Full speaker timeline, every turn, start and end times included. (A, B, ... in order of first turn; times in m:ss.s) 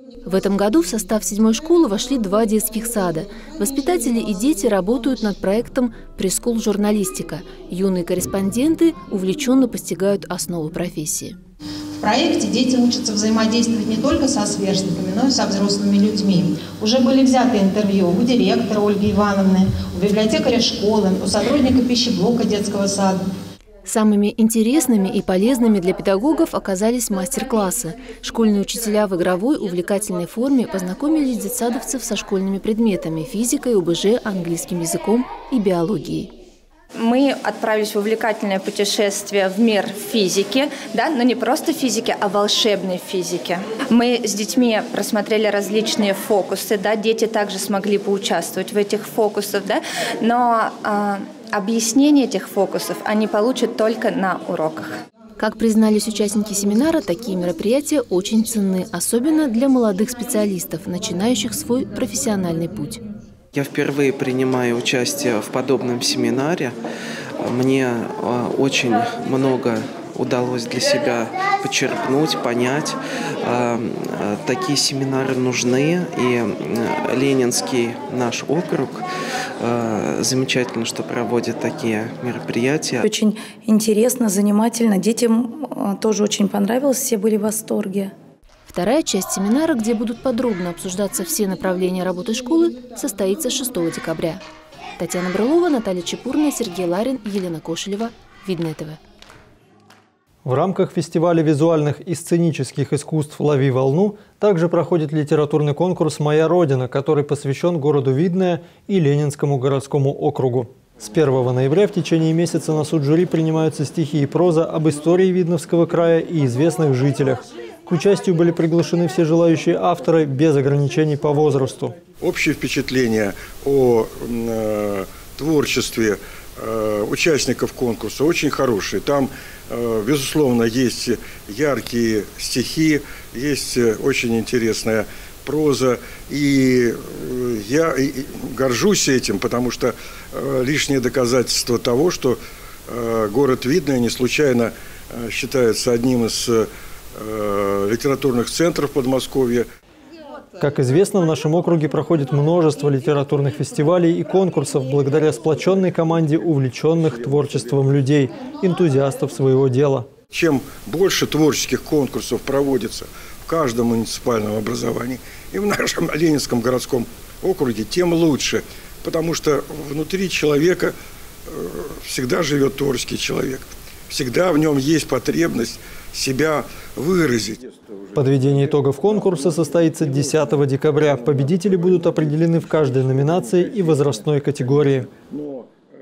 0:00.2-0:11.4 A
0:12.0-0:23.2 B
0:23.9-0:36.3 A
0:37.0-0:54.8 C
0:55.4-1:03.0 A
1:03.6-1:06.7 D
1:07.4-1:19.0 D
1:19.6-1:23.0 D
1:22.9-1:28.1 E
1:28.7-1:34.4 A
1:35.0-1:39.0 A
1:40.4-2:01.9 F
2:02.2-2:29.7 G
2:30.6-2:40.1 F
2:40.3-2:51.0 G
2:51.5-2:57.8 G
2:58.2-3:05.1 F
3:03.0-3:03.6 G
3:05.1-3:05.7 G